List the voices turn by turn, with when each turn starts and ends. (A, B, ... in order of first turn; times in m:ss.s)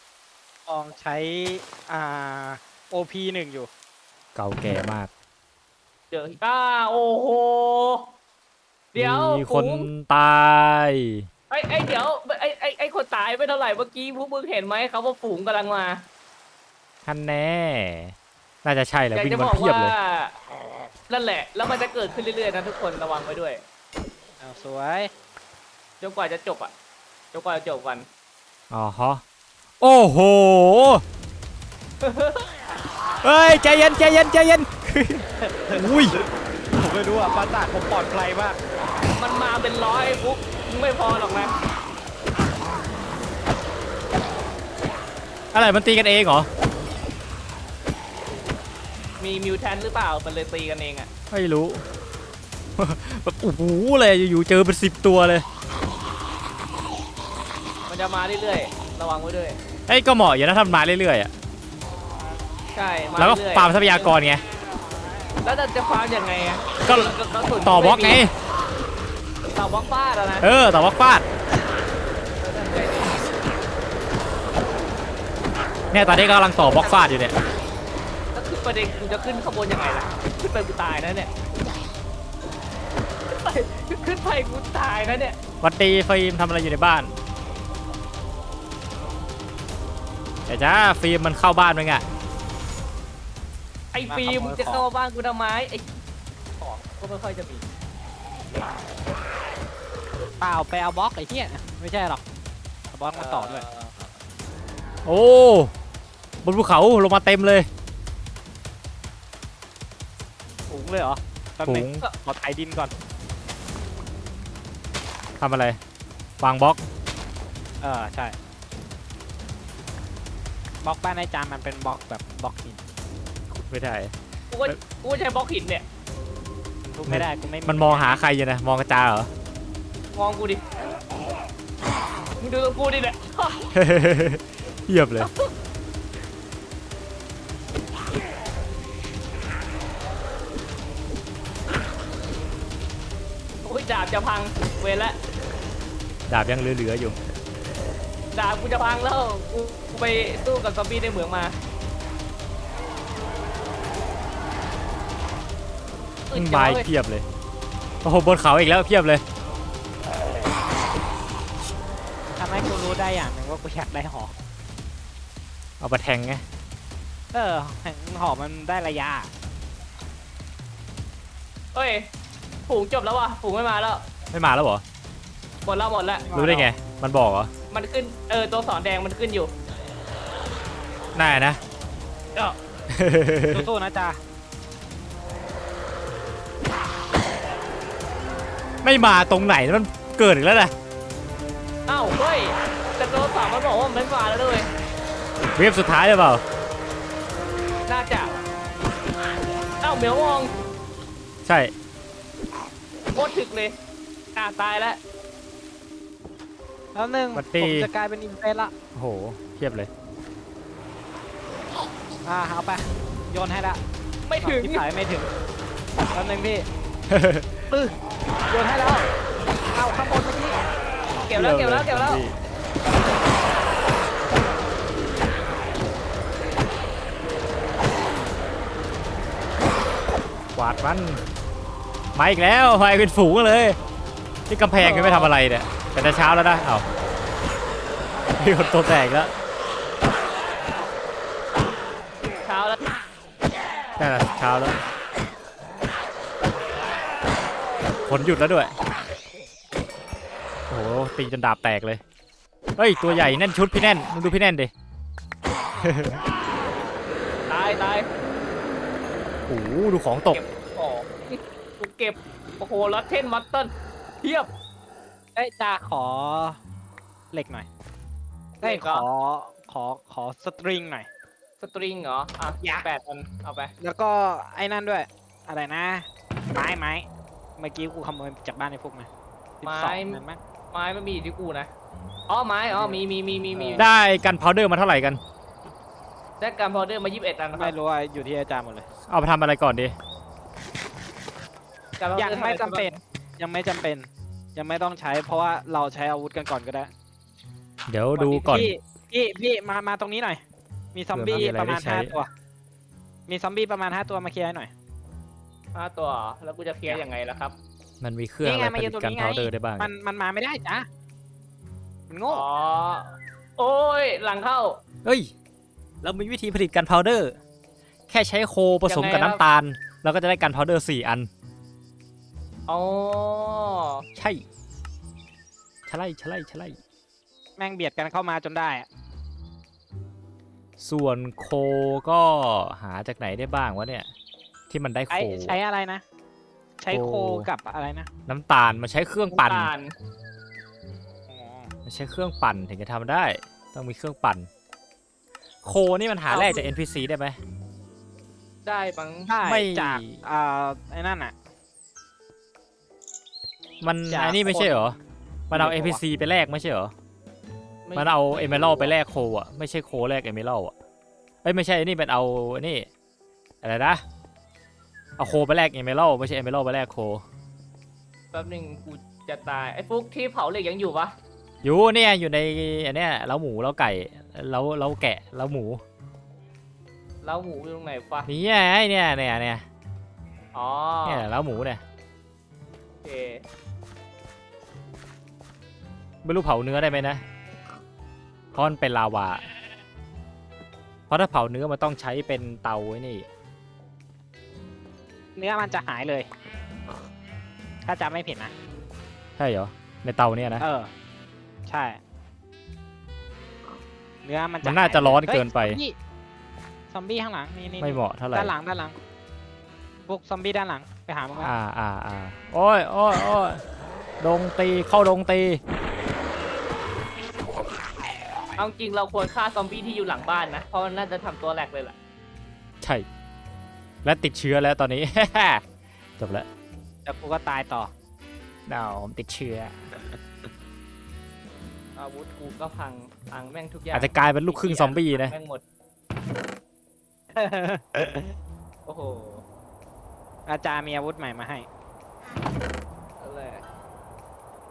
0:00.7-0:03.7 A
0:04.3-0:05.1 B
0:06.1-0:08.1 C
0:08.9-0:09.9 C
0:08.9-0:11.3 B
0:11.5-0:16.0 C
0:17.0-0:19.9 B
0:19.1-0:20.3 C
0:21.1-0:23.6 C
0:24.4-0:25.1 A
0:26.0-0:26.7 C
0:27.3-0:28.1 C
0:28.7-0:29.2 B
0:29.8-0:31.0 B
0:32.0-0:32.4 C
0:33.2-0:36.2 B
0:35.4-0:38.6 A
0:39.2-0:41.6 C
0:45.5-0:46.5 B
0:49.2-0:51.1 C
0:51.3-0:51.8 B
0:52.8-0:55.4 B
0:57.9-0:59.6 C
0:59.9-1:01.3 B
1:02.7-1:04.1 C
1:03.2-1:04.4 B
1:05.4-1:08.2 C
1:06.8-1:08.3 B
1:09.5-1:10.5 C
1:10.4-1:11.2 B
1:12.4-1:13.2 C
1:15.9-1:17.4 B
1:18.3-1:21.3 C
1:23.3-1:25.4 C
1:25.6-1:27.2 B
1:30.5-1:32.0 B
1:33.9-1:35.8 C
1:34.1-1:34.8 A
1:36.6-1:37.6 C
1:40.4-1:42.2 A
1:42.9-1:43.6 A
1:43.1-1:44.0 C
1:45.0-1:45.7 B
1:46.4-1:47.7 B
1:50.7-1:52.9 A
1:51.6-1:52.0 B
1:55.4-1:55.8 B
1:56.4-1:56.8 B
1:57.8-1:58.3 A
2:00.8-2:02.8 A
2:03.5-2:04.1 B
2:04.5-2:05.8 C
2:06.8-2:08.2 A
2:07.0-2:09.3 B
2:10.1-2:10.6 C
2:12.4-2:13.6 C
2:13.7-2:15.3 B
2:15.2-2:15.5 C
2:23.6-2:25.2 C
2:26.3-2:27.2 B
2:28.3-2:31.6 C
2:36.3-2:36.9 C
2:36.3-2:37.2 B
2:38.0-2:39.2 B
2:42.4-2:44.3 A
2:45.8-2:46.4 B
2:47.3-2:49.3 A
2:51.7-2:52.1 C
2:52.7-2:54.0 C
2:54.3-2:54.8 B
2:55.6-2:56.3 C
2:56.3-2:56.7 A
2:56.3-2:57.5 B
2:57.7-2:59.5 C
3:01.1-3:01.6 B
3:02.9-3:03.7 B
3:03.5-3:04.2 A
3:08.8-3:10.7 B
3:11.9-3:14.7 C
3:15.6-3:16.4 B
3:17.9-3:18.3 C
3:19.8-3:20.5 C
3:21.4-3:21.7 B
3:23.1-3:23.8 C
3:24.3-3:25.0 C
3:26.9-3:28.7 A
3:27.3-3:27.9 B
3:28.9-3:29.9 B
3:32.2-3:33.8 A
3:34.3-3:34.8 C
3:34.4-3:35.3 A
3:36.1-3:36.6 A
3:37.1-3:37.7 B
3:37.7-3:38.0 A
3:38.5-3:39.1 A
3:39.7-3:40.6 A
3:41.2-3:42.2 C
3:41.3-3:42.4 B
3:50.5-3:51.2 B
3:52.1-3:53.8 B
3:54.5-3:56.8 B
3:54.8-3:55.3 C
3:58.4-3:59.3 B
4:02.4-4:02.8 C
4:04.0-4:04.8 B
4:08.0-4:08.7 B
4:10.7-4:12.0 B
4:12.8-4:14.7 B
4:15.8-4:16.2 B
4:17.5-4:18.1 C
4:19.5-4:20.4 B
4:20.3-4:24.5 C
4:25.4-4:26.6 A
4:27.3-4:27.7 A
4:28.6-4:29.0 C
4:28.6-4:31.1 A
4:31.6-4:33.7 C
4:32.6-4:32.9 A
4:33.8-4:37.1 A
4:37.6-4:39.1 A
4:39.6-4:40.4 A
4:39.6-4:41.7 C
4:42.3-4:43.9 C
4:42.7-4:43.0 A
4:43.5-4:43.9 A
4:43.8-4:45.2 B
4:46.4-4:47.7 C
4:47.5-4:48.9 A
4:49.1-4:49.9 B
4:52.0-4:53.0 C
4:52.2-4:56.9 A
4:57.9-4:58.7 B
4:58.2-4:58.6 C
4:58.4-5:00.4 A
5:00.9-5:02.3 A
5:01.1-5:02.1 B
5:03.3-5:04.7 A
5:05.7-5:07.6 C
5:08.0-5:09.9 B
5:08.4-5:10.9 A
5:12.1-5:12.4 A
5:12.3-5:14.8 C
5:15.0-5:15.3 B
5:16.0-5:17.4 B
5:18.1-5:21.3 B
5:18.9-5:19.4 C
5:22.7-5:24.0 C
5:24.1-5:24.4 B
5:25.9-5:26.8 B
5:27.6-5:28.9 A
5:30.8-5:34.1 B
5:34.7-5:35.6 B
5:35.1-5:36.0 A
5:36.8-5:38.1 A
5:36.9-5:37.5 B
5:38.3-5:39.7 B
5:39.3-5:39.9 C
5:41.3-5:41.7 A
5:41.8-5:44.5 B
5:45.6-5:47.4 B
5:46.3-5:46.7 C
5:48.6-5:49.3 C
5:49.3-5:51.3 A
5:49.4-5:50.2 B
5:53.8-5:55.0 B
5:54.1-5:55.0 A
5:55.5-5:56.9 B
5:55.5-5:56.0 A
5:57.8-5:58.9 C
5:57.9-6:00.7 B
6:01.4-6:02.9 B
6:03.6-6:04.0 B
6:05.2-6:07.2 B
6:08.3-6:11.1 C
6:11.6-6:15.8 B
6:17.2-6:18.3 C
6:18.2-6:19.6 B
6:20.5-6:21.2 C
6:21.0-6:21.8 B
6:23.0-6:23.4 C
6:26.2-6:27.2 B
6:28.5-6:29.4 B
6:31.1-6:33.3 B
6:35.4-6:36.3 A
6:37.8-6:38.5 A
6:39.4-6:40.6 B
6:40.6-6:40.9 A
6:41.7-6:42.0 A
6:44.2-6:46.0 A
6:44.6-6:45.8 B
6:46.9-6:48.9 A
6:47.8-6:48.5 B
6:50.1-6:51.5 A
6:51.4-6:53.6 B
6:54.2-6:55.6 B
6:58.6-7:02.0 C
7:04.0-7:05.6 B
7:06.2-7:06.5 B
7:07.0-7:07.9 A
7:08.7-7:10.0 B
7:12.0-7:15.6 C
7:13.9-7:15.4 B
7:17.3-7:18.3 A
7:18.8-7:19.4 C
7:20.5-7:21.7 A
7:23.2-7:23.6 C